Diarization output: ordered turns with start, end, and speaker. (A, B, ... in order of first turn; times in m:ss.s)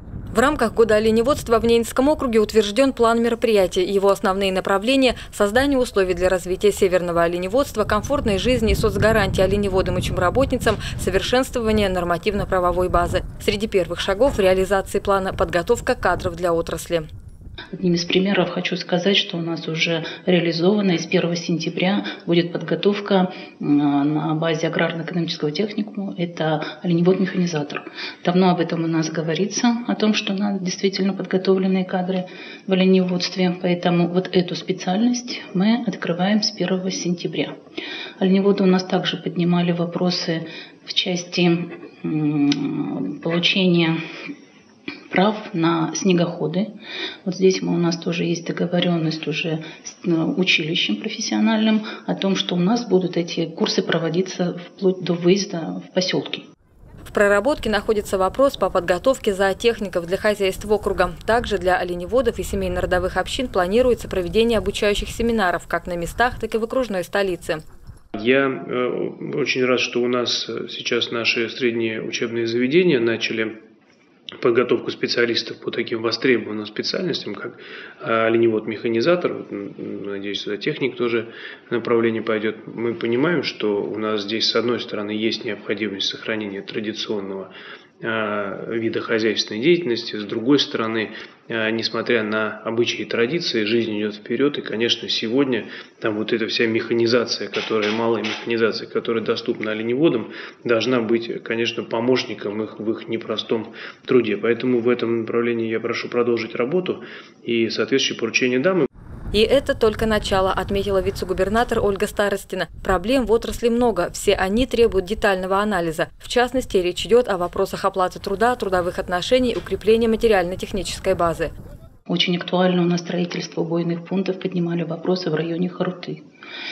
0:00.3-0:17.1 A
0:17.7-0:37.5 B
0:38.2-0:44.0 B
0:45.1-0:46.7 B
0:47.3-0:56.5 B
0:57.1-1:07.6 A
1:08.2-1:13.6 C
1:14.4-1:48.9 C
1:49.3-2:01.5 A
2:02.1-2:06.2 B